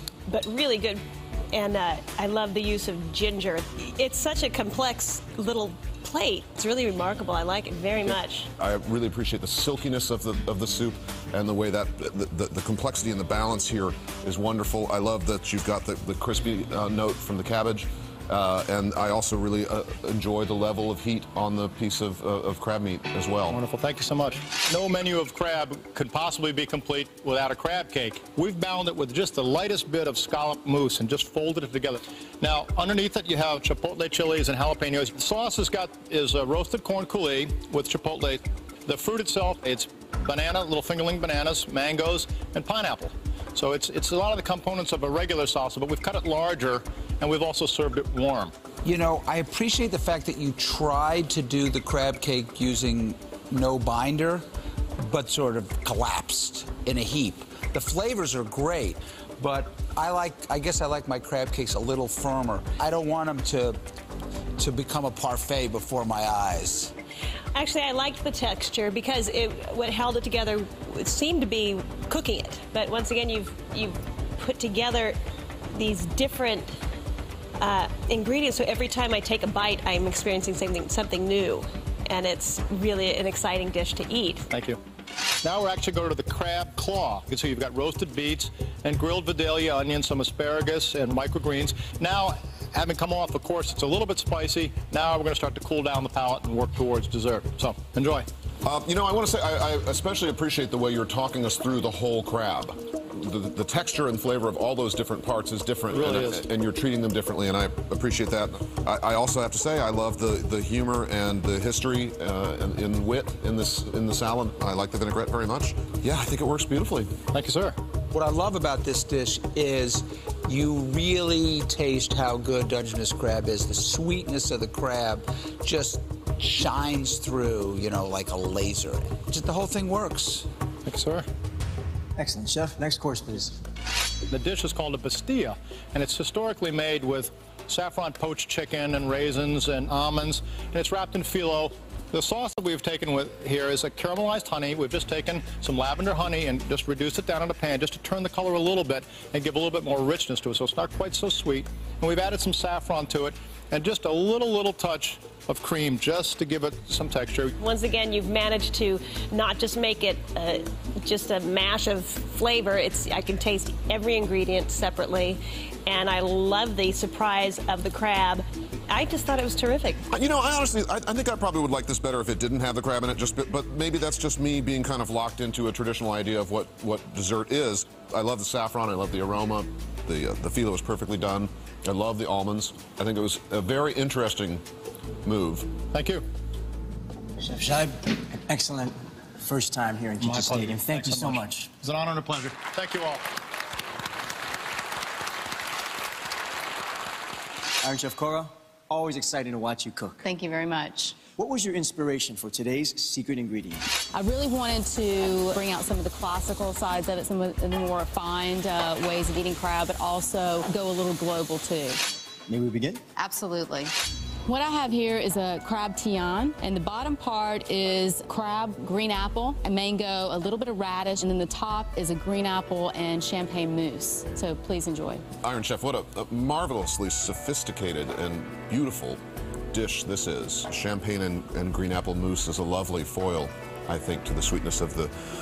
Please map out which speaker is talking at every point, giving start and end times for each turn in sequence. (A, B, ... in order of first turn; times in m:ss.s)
0:00.3-0:08.5 A
0:08.1-0:23.6 B
0:23.5-0:48.5 C
0:48.8-0:54.4 D
0:55.0-1:03.8 D
1:04.6-1:06.9 D
1:07.6-1:15.2 A
1:15.7-1:16.7 A
1:17.6-1:24.5 A
1:24.5-1:24.8 C
1:25.4-1:38.3 C
1:38.6-1:57.1 B
1:45.9-1:46.4 C
1:57.3-1:57.8 C
1:58.1-2:10.5 D
2:10.9-2:11.3 C
2:12.2-2:13.6 E
2:14.3-2:37.6 C
2:37.6-2:50.0 A
2:50.1-3:04.6 B
3:05.2-3:05.7 B
3:05.9-3:06.2 C
3:07.4-3:11.7 E
3:10.2-3:13.2 C
3:17.8-3:20.2 E
3:20.2-3:21.2 F
3:21.4-3:23.9 E
3:24.1-3:32.0 F
3:32.5-3:33.0 E
3:33.2-3:33.9 F
3:34.5-3:45.2 F
3:45.4-3:49.2 B
3:49.7-3:55.1 B